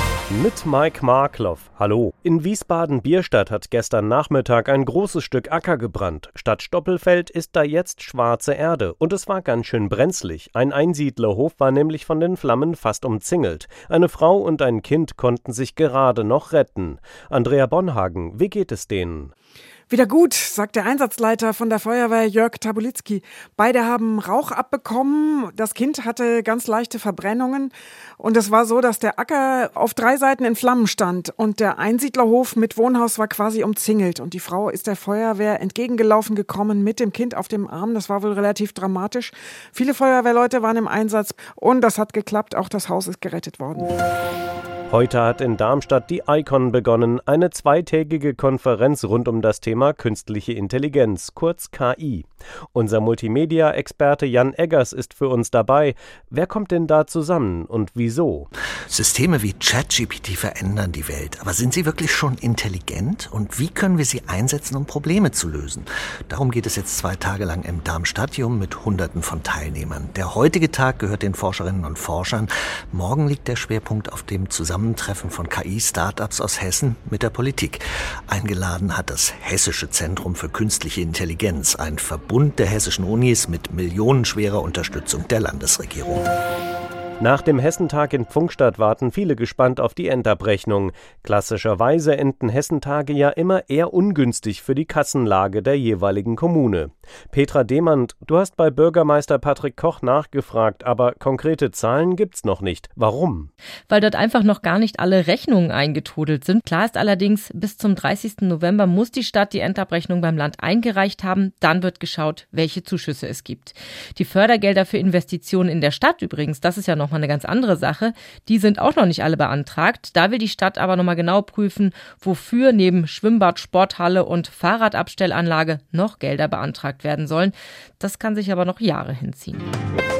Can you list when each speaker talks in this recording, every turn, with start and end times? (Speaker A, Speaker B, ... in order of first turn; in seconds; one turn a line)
Speaker A: 0.3-19.3
Speaker B: 19.9-43.9
Speaker A: 44.9-58.5
Speaker C: 58.9-86.2
Speaker A: 87.2-103.5
Speaker D: 103.9-129.7